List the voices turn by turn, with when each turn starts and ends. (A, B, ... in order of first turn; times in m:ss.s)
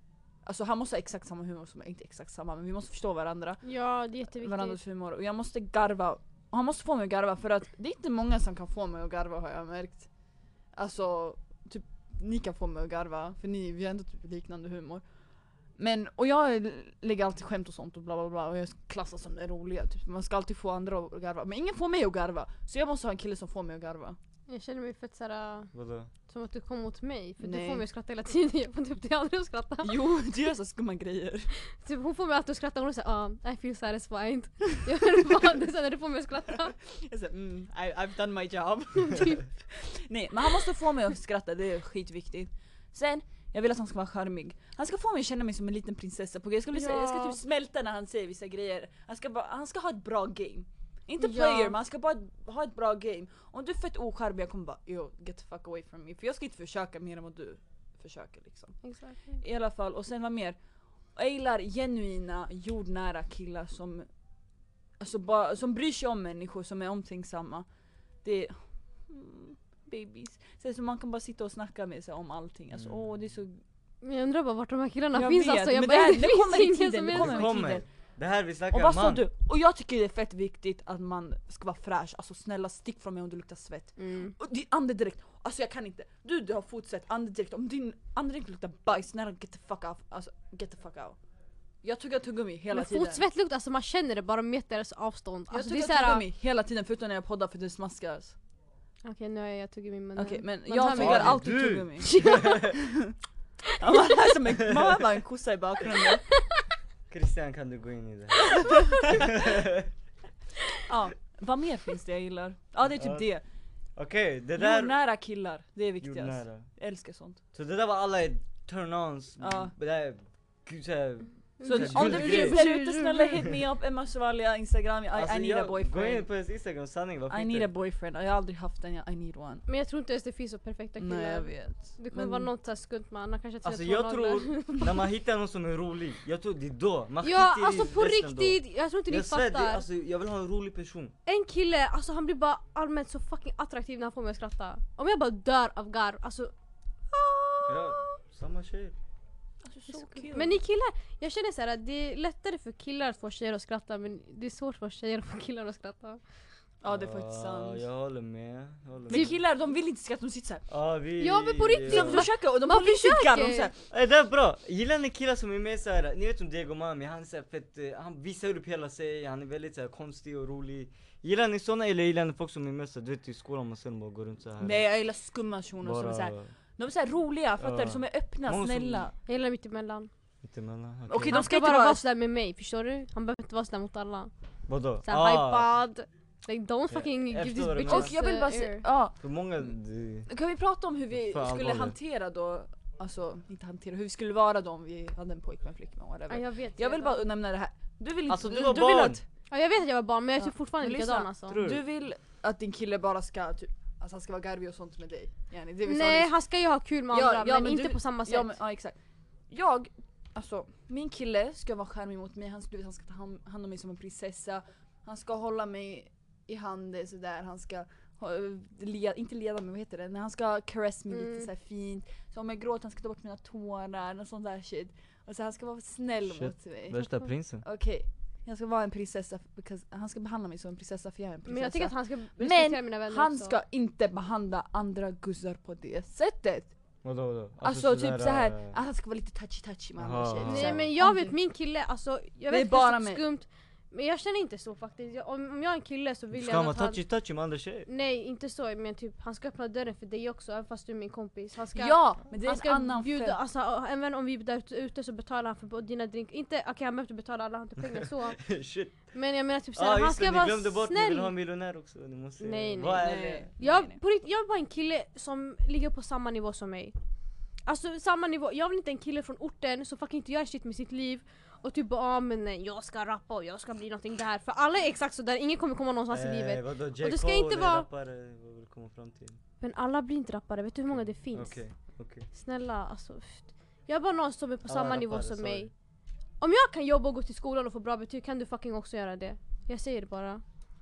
0:00.4-0:03.6 A
0:03.6-0:04.8 B
0:04.4-0:10.1 A
0:10.8-0:15.0 A
0:15.8-0:24.2 A
0:24.5-0:25.7 B
0:25.7-0:26.1 C
0:26.3-0:29.9 B
0:27.4-0:27.8 A
0:29.8-0:31.5 A
0:31.7-0:36.7 B
0:36.8-0:58.8 A
0:39.0-0:39.4 B
0:46.7-0:47.4 B
0:51.2-0:51.7 B
0:58.8-0:59.4 B
0:59.4-1:00.6 A
1:01.2-1:04.1 A
1:05.0-1:07.6 A
1:08.2-1:13.6 A
1:12.7-1:13.1 C
1:14.0-1:17.5 B
1:15.1-1:17.8 A
1:17.1-1:19.2 C
1:18.7-1:31.2 A
1:24.0-1:24.3 B
1:31.8-1:33.2 A
1:32.7-1:36.2 B
1:35.5-1:38.3 A
1:39.0-1:41.4 B
1:40.2-1:43.1 A
1:40.9-1:42.7 C
1:42.0-1:42.8 B
1:43.8-1:46.2 A
1:44.6-1:45.1 C
1:47.1-1:49.9 C
1:48.5-1:49.3 A
1:50.8-1:53.4 A
1:52.9-1:53.3 C
1:54.0-1:55.0 C
1:54.6-1:57.4 A
1:56.0-1:56.7 C
1:57.5-2:02.6 C
1:59.4-1:59.7 A
2:01.6-2:03.5 B
2:01.6-2:06.3 A
2:05.1-2:07.7 C
2:07.3-2:09.6 A
2:09.7-2:15.0 B
2:11.0-2:12.5 A
2:13.6-2:21.1 C
2:17.2-2:19.8 B
2:21.2-2:26.5 B
2:27.1-2:28.1 B
2:27.6-2:28.9 C
2:29.6-2:30.6 A
2:29.9-2:36.2 B
2:36.8-2:37.8 A
2:36.9-2:39.3 C
2:39.1-2:40.6 A
2:40.7-2:42.3 C
2:41.2-2:43.7 B
2:41.8-2:43.7 A
2:43.9-2:54.8 C
2:54.6-2:59.1 A
2:55.8-2:56.5 C
2:57.6-2:59.1 C
2:59.2-3:00.1 B
3:00.4-3:01.4 C
3:01.1-3:02.0 A
3:01.2-3:04.3 B
3:04.7-3:05.7 C
3:05.0-3:08.8 B
3:06.9-3:08.1 C
3:07.9-3:09.2 A
3:09.2-3:10.3 C
3:10.3-3:19.2 A
3:11.1-3:12.0 C
3:16.3-3:17.2 B
3:18.3-3:19.2 C
3:19.5-3:21.6 B
3:20.4-3:26.3 A
3:21.5-3:21.8 C
3:25.8-3:28.5 B
3:27.1-3:29.0 A
3:29.5-3:47.0 A
3:41.1-3:41.5 B
3:46.3-3:47.6 C
3:47.6-3:56.7 A
3:51.5-3:53.6 B
3:57.0-3:58.8 C
3:57.6-4:01.4 A
4:00.0-4:00.9 C
4:00.4-4:07.0 B
4:02.5-4:03.2 A
4:06.3-4:07.9 C
4:07.9-4:18.5 B
4:11.7-4:13.4 A
4:17.8-4:19.0 C
4:19.1-4:21.3 B
4:19.8-4:23.5 C
4:22.4-4:26.9 B
4:22.8-4:24.0 A
4:27.6-4:37.8 B
4:36.1-4:39.4 C
4:39.6-4:41.6 B
4:40.9-4:42.3 C
4:42.3-4:45.7 B
4:44.7-4:45.7 C
4:46.4-4:50.4 B